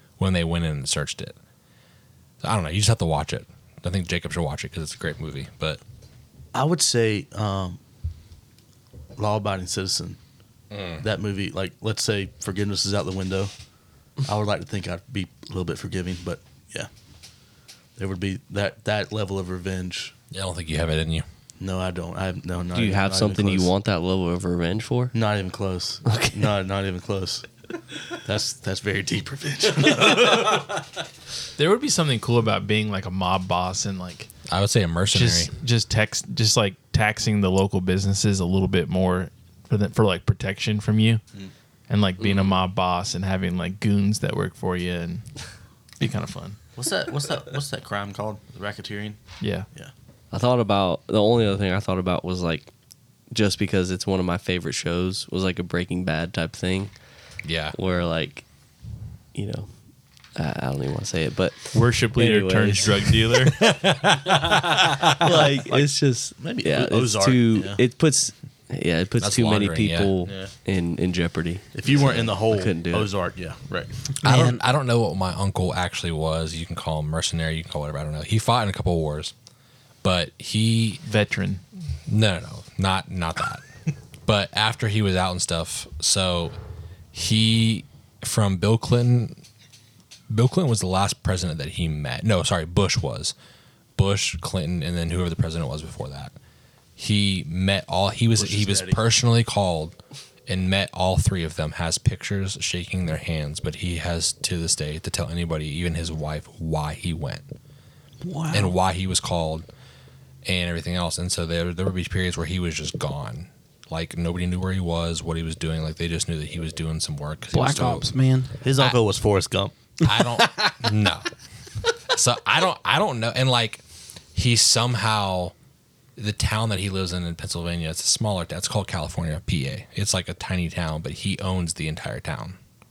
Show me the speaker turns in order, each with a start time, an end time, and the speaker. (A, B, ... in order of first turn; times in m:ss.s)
0:00.2-0:01.4 A
0:02.4-0:05.8 A
0:06.5-0:07.8 B
0:09.2-0:10.2 B
0:10.7-0:11.0 A
0:11.0-0:13.5 B
0:14.2-0:16.9 B
0:18.0-0:20.1 B
0:20.3-0:21.3 A
0:21.6-0:23.7 B
0:22.7-0:25.1 C
0:25.1-0:27.5 B
0:26.0-0:26.5 C
0:28.1-0:30.8 B
0:31.6-0:34.3 D
0:34.5-0:35.5 A
0:35.1-0:41.2 D
0:41.9-0:45.3 D
0:42.2-0:42.6 C
0:46.0-0:46.6 D
0:46.8-0:49.2 B
0:49.4-0:49.7 D
0:50.3-0:52.7 C
0:53.3-0:56.9 C
0:57.4-0:57.8 A
0:57.7-0:58.4 C
0:59.3-0:59.7 C
1:00.4-1:13.1 C
1:01.7-1:03.8 D
1:04.6-1:07.8 B
1:09.2-1:10.1 A
1:10.2-1:10.5 B
1:11.7-1:14.1 B
1:14.2-1:14.6 E
1:14.2-1:19.3 A
1:20.0-1:21.0 A
1:21.0-1:21.6 D
1:22.1-1:23.6 A
1:24.2-1:26.6 A
1:27.1-1:29.4 A
1:30.3-1:33.3 A
1:34.0-1:36.3 A
1:37.0-1:39.9 A
1:38.4-1:39.0 B
1:40.5-1:47.5 A
1:48.2-1:48.7 E
1:48.5-1:49.6 A
1:50.4-1:58.0 A
1:57.5-1:58.6 E
1:58.6-1:59.7 B
2:00.0-2:01.3 A
2:00.0-2:00.8 E
2:02.1-2:03.8 A
2:04.3-2:05.5 A
2:06.2-2:12.6 A